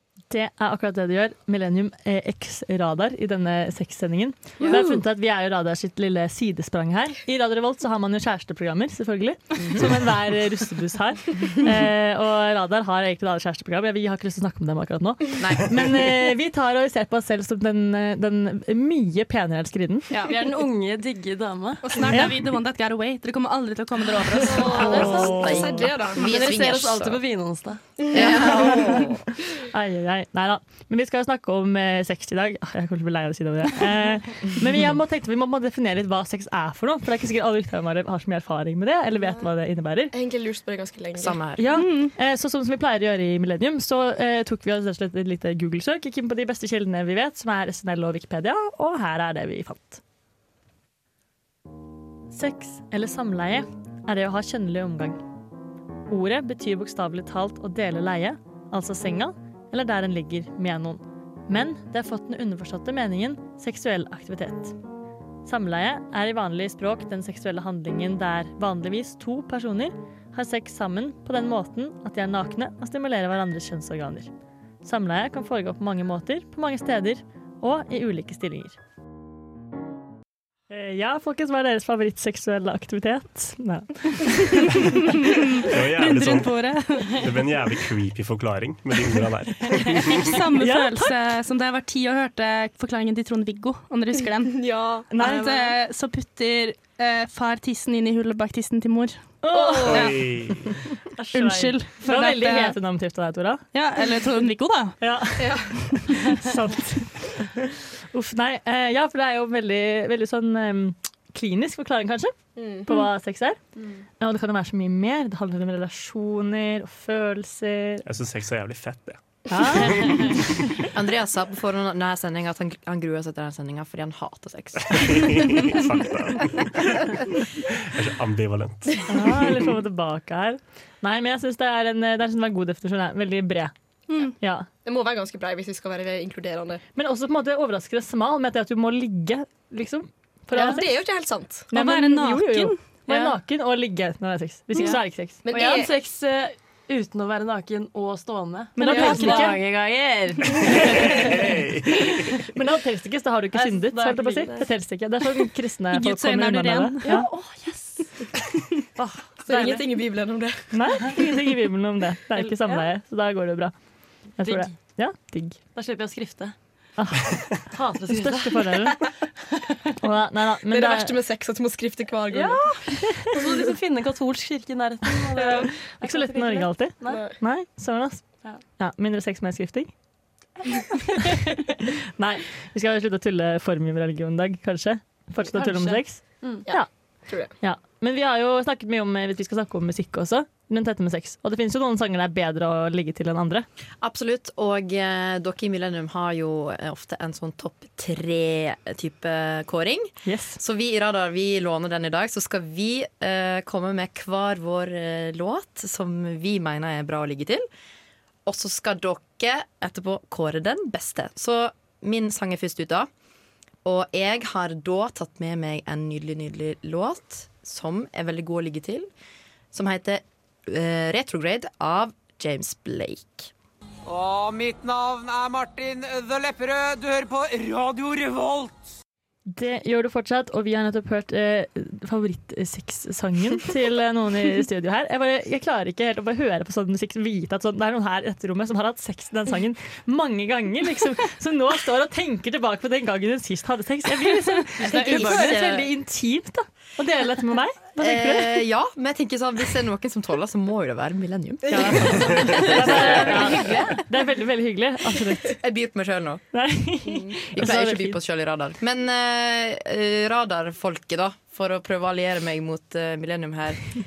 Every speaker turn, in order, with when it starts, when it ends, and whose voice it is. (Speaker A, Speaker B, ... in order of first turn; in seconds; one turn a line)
Speaker A: 0.3-20.1
Speaker B: 9.6-9.9
Speaker B: 15.4-16.0
Speaker C: 20.2-22.1
Speaker D: 21.8-24.8
Speaker A: 22.1-22.4
Speaker C: 24.4-25.6
Speaker E: 24.4-26.3
Speaker A: 24.8-25.8
Speaker B: 24.8-27.2
Speaker C: 26.2-28.9
Speaker B: 28.1-29.2
Speaker A: 28.4-29.0
Speaker A: 29.7-40.1
Speaker E: 40.1-41.4
Speaker B: 41.2-41.7
Speaker A: 41.6-50.0
Speaker D: 41.7-42.1
Speaker A: 52.3-55.2
Speaker A: 56.1-64.8
Speaker A: 65.5-74.3
Speaker A: 74.8-78.8
Speaker A: 80.7-84.9
Speaker D: 84.8-87.2
Speaker F: 85.6-86.6
Speaker F: 87.2-90.4
Speaker D: 90.1-99.4
Speaker A: 90.6-91.1
Speaker E: 94.5-95.1
Speaker A: 95.1-95.5
Speaker C: 95.2-95.7
Speaker A: 99.4-100.2
Speaker E: 99.5-100.0
Speaker F: 99.9-100.8
Speaker D: 99.9-100.2
Speaker A: 101.2-103.6
Speaker D: 101.3-102.8
Speaker D: 103.7-105.0
Speaker A: 105.0-113.6
Speaker E: 105.4-106.1
Speaker E: 112.6-112.9
Speaker A: 114.2-118.0
Speaker F: 118.1-119.2
Speaker A: 119.5-120.3
Speaker F: 119.7-120.8
Speaker B: 120.9-125.6
Speaker F: 124.9-129.6
Speaker A: 129.1-133.7
Speaker A: 134.4-134.7
Speaker E: 134.8-136.8
Speaker A: 136.9-140.9
Speaker E: 140.5-141.7
Speaker A: 141.7-145.4
Speaker D: 141.7-142.8
Speaker C: 143.1-143.4
Speaker C: 144.8-151.6
Speaker E: 145.4-145.9
Speaker A: 148.8-149.6
Speaker E: 148.8-149.5
Speaker F: 150.8-152.2
Speaker A: 152.5-157.3
Speaker C: 153.5-154.7
Speaker D: 155.9-157.2
Speaker C: 157.0-158.1
Speaker C: 159.0-159.8
Speaker E: 159.4-160.7
Speaker A: 160.7-163.7
Speaker C: 162.3-162.9
Speaker A: 164.4-165.6
Speaker C: 164.4-164.8
Speaker C: 165.8-166.5
Speaker A: 167.0-167.3
Speaker C: 167.7-169.1
Speaker A: 168.1-169.0
Speaker A: 170.0-171.2
Speaker E: 170.7-172.8
Speaker C: 172.3-177.3
Speaker A: 175.4-178.2
Speaker E: 177.0-177.3
Speaker A: 178.8-179.9
Speaker A: 181.3-186.9
Speaker C: 185.4-186.7
Speaker E: 186.7-187.5
Speaker A: 187.5-193.7
Speaker B: 194.0-207.7
Speaker A: 200.2-200.6
Speaker B: 208.5-213.1
Speaker B: 213.8-219.1
Speaker B: 219.7-223.5
Speaker G: 224.1-228.9
Speaker A: 229.5-248.7
Speaker C: 244.8-245.9
Speaker B: 244.8-245.8
Speaker B: 248.0-254.0
Speaker A: 251.7-255.6
Speaker E: 251.8-252.7
Speaker C: 253.0-253.8
Speaker B: 255.5-256.4
Speaker A: 256.5-258.2
Speaker E: 257.1-257.4
Speaker B: 257.5-263.9